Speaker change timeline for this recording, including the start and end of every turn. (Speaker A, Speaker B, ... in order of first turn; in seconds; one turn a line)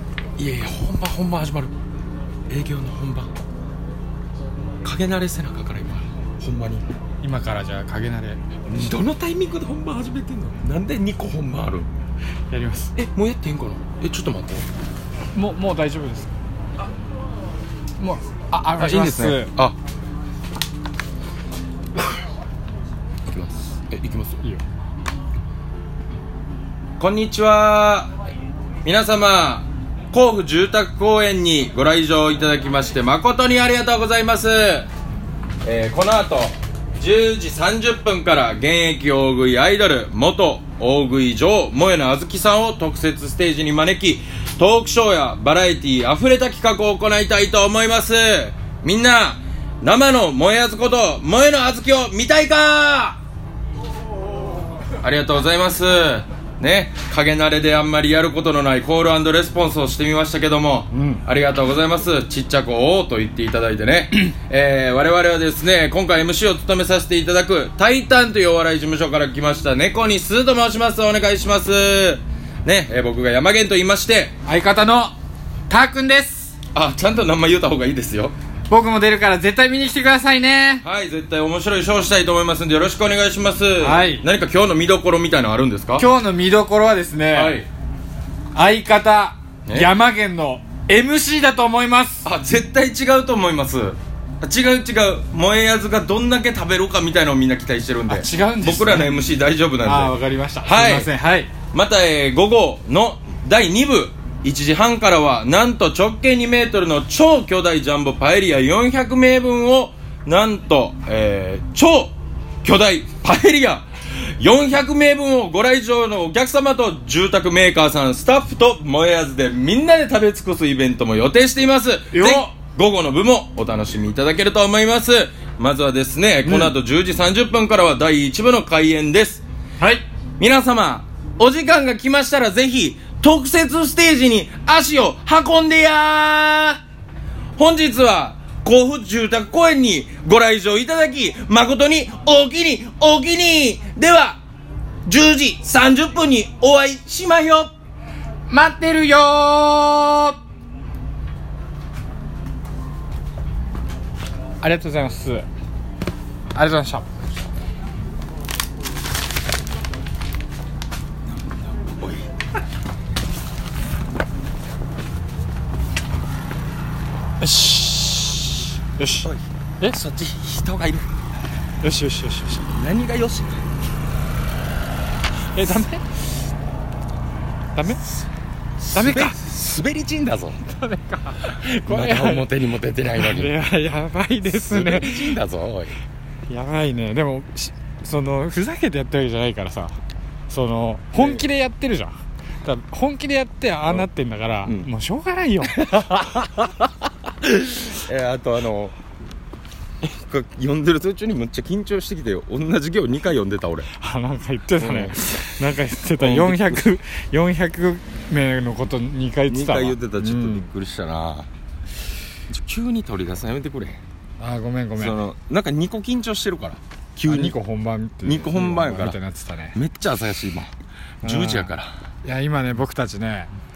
Speaker A: 0.4-1.7
Speaker A: 2.5-3.3
Speaker A: 4.8-6.8
Speaker B: 7.2-8.4
Speaker A: 8.7-11.9
Speaker B: 12.5-12.9
Speaker A: 12.9-14.7
Speaker B: 15.3-16.3
Speaker B: 18.0-19.5
Speaker A: 18.8-19.8
Speaker A: 23.2-24.4
Speaker A: 27.0-28.1
Speaker A: 28.8-34.9
Speaker A: 35.6-53.2
Speaker A: 55.0-74.3
Speaker B: 60.9-61.2
Speaker B: 74.4-75.1
Speaker B: 75.7-76.5
Speaker A: 76.7-78.3
Speaker B: 78.7-80.8
Speaker A: 80.8-86.1
Speaker B: 83.8-84.2
Speaker B: 86.0-87.6
Speaker A: 87.3-87.7
Speaker B: 88.5-92.3
Speaker A: 89.7-89.9
Speaker A: 92.2-101.1
Speaker B: 98.1-99.2
Speaker B: 99.8-101.5
Speaker A: 101.7-129.4
Speaker B: 122.1-122.5
Speaker B: 126.4-126.7
Speaker A: 130.4-136.8
Speaker A: 137.6-144.4
Speaker A: 145.0-147.7
Speaker B: 148.5-150.4
Speaker B: 154.6-155.5
Speaker B: 156.5-157.2
Speaker A: 161.3-162.3
Speaker B: 167.4-169.3
Speaker A: 169.2-171.1
Speaker B: 171.8-172.7
Speaker A: 172.7-173.6
Speaker B: 175.5-176.3
Speaker B: 177.8-178.0
Speaker A: 178.8-180.6
Speaker B: 178.9-179.4
Speaker B: 180.6-182.5
Speaker A: 181.4-183.6
Speaker B: 183.2-185.4
Speaker A: 184.4-185.9
Speaker B: 186.5-190.0
Speaker B: 190.5-196.2
Speaker A: 191.2-191.4
Speaker A: 195.7-196.9
Speaker A: 197.4-198.9
Speaker A: 200.0-203.9
Speaker B: 203.9-210.7
Speaker A: 204.8-205.4
Speaker A: 206.2-206.9
Speaker A: 209.5-211.5
Speaker A: 212.5-214.0
Speaker B: 214.4-215.2
Speaker A: 214.9-217.6
Speaker B: 217.3-219.8
Speaker A: 218.2-219.2
Speaker A: 219.7-221.9
Speaker B: 221.2-223.5